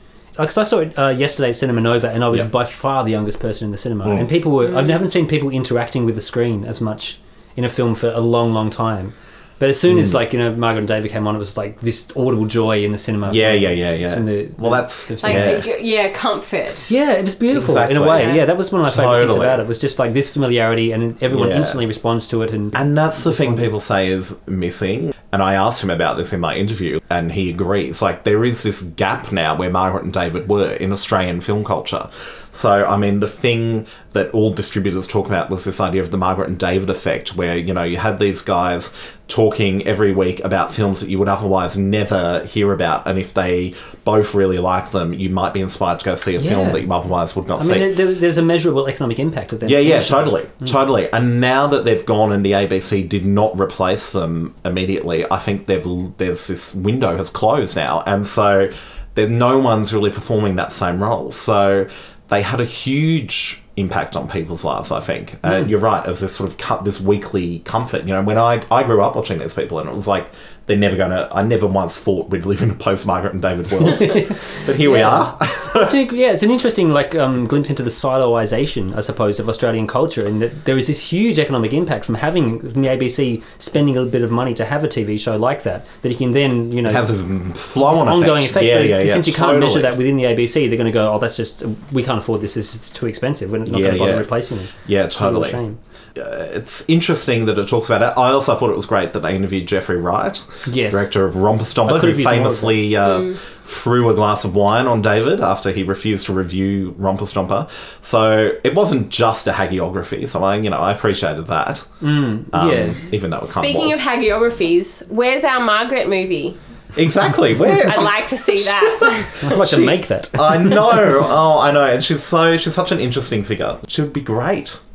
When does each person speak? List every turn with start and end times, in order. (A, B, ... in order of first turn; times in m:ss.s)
0:00.4-0:15.6 A
0:04.0-0:04.3 B
0:04.6-0:05.0 C
0:09.9-0:10.2 B
0:13.2-0:15.6 B
0:15.2-0:16.9 C
0:16.9-0:23.7 A
0:17.5-0:19.6 B
0:18.1-0:18.4 C
0:21.3-0:21.8 B
0:22.7-0:47.9 B
0:46.4-0:46.9 A
0:47.6-0:50.8 A
0:49.6-1:15.9 B
1:14.0-1:27.1 A
1:26.8-1:29.9 B
1:27.8-1:35.8 A
1:33.7-1:54.0 B
1:40.7-1:41.1 A
1:41.8-1:42.8 A
1:43.0-1:43.4 C
1:52.0-1:53.1 A
1:53.4-1:56.6 C
1:57.0-2:04.8 B
1:57.9-1:59.5 C
1:59.4-2:01.0 A